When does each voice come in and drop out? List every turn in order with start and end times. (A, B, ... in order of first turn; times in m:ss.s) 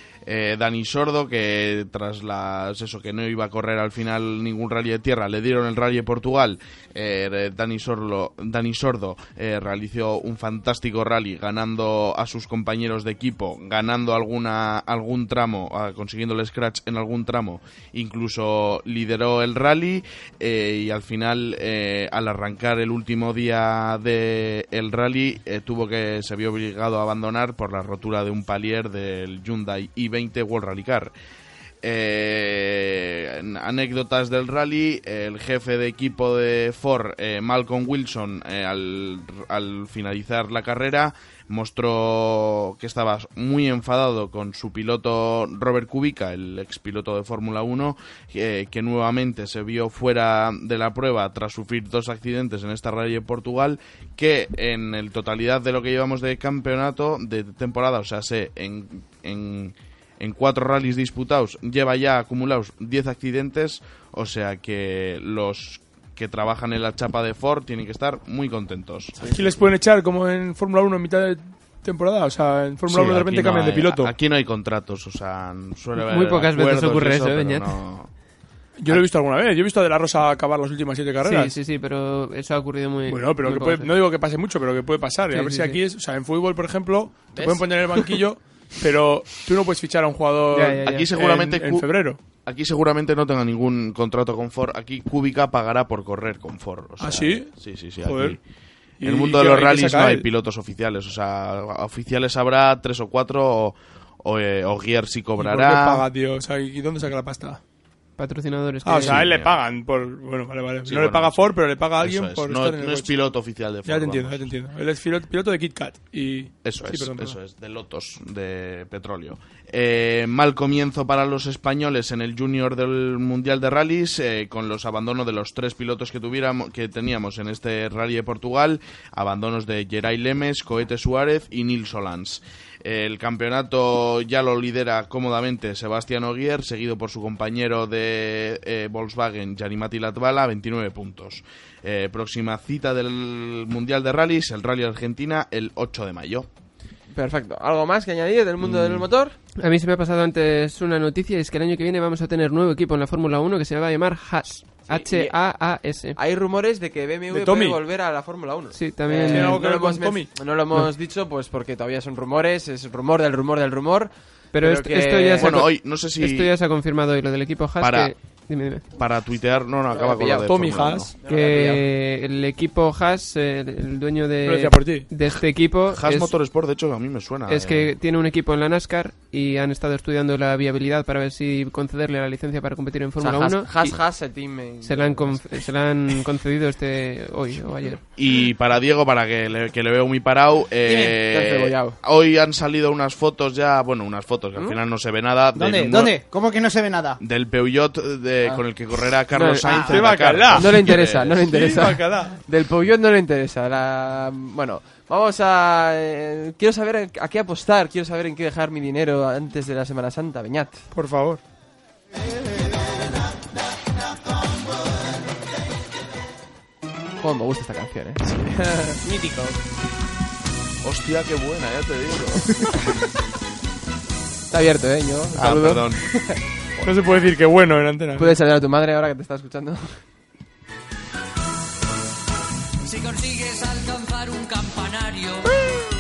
0:00.2-0:31.1 A
0:31.8-1:09.4 A
1:09.2-1:14.1 B
1:12.9-1:18.1 A
1:16.0-1:17.8 C
1:18.8-1:21.5 B
1:21.2-1:23.9 C
1:23.1-1:32.2 B
1:25.3-1:25.8 C
1:27.3-1:27.9 D
1:30.5-1:31.1 C
1:30.8-1:38.4 A
1:37.0-1:38.4 B
1:39.0-1:40.3 B
1:39.0-1:46.1 A
1:45.4-1:47.6 B
1:48.2-1:49.3 C
1:48.8-1:57.4 B
1:48.9-1:49.6 A
1:50.9-1:54.5 A
1:56.6-2:26.5 A
2:27.1-2:29.4 D
2:28.6-2:29.1 A
2:29.6-2:36.2 C
2:34.9-2:35.4 D
2:36.2-2:45.6 D
2:37.3-2:37.8 B
2:38.7-2:39.6 C
2:39.3-2:40.3 B
2:44.5-2:48.8 C
2:45.4-2:46.5 A
2:47.8-2:48.1 A
2:48.9-2:51.1 A
2:49.9-2:50.5 D
2:50.4-2:51.1 B
2:51.2-2:51.8 D
2:51.2-2:56.3 C
2:54.4-2:55.1 B
2:55.9-2:57.9 A
2:57.5-3:04.0 C
3:03.2-3:05.6 D
3:04.8-3:08.0 C
3:08.2-3:16.2 A
3:10.9-3:11.2 E
3:11.3-3:12.0 D
3:15.6-3:17.2 E
3:17.2-3:21.4 A
3:19.3-3:19.9 D
3:19.7-3:20.0 E
3:19.8-3:22.4 B
3:20.5-3:30.9 D
3:30.9-3:31.4 B
3:37.2-3:39.0 D
3:39.0-3:39.6 E
3:40.8-3:42.8 A
3:44.5-3:46.4 D
3:45.3-3:46.1 A
3:46.8-3:48.3 B
3:48.2-3:50.0 D
3:52.9-3:55.4 F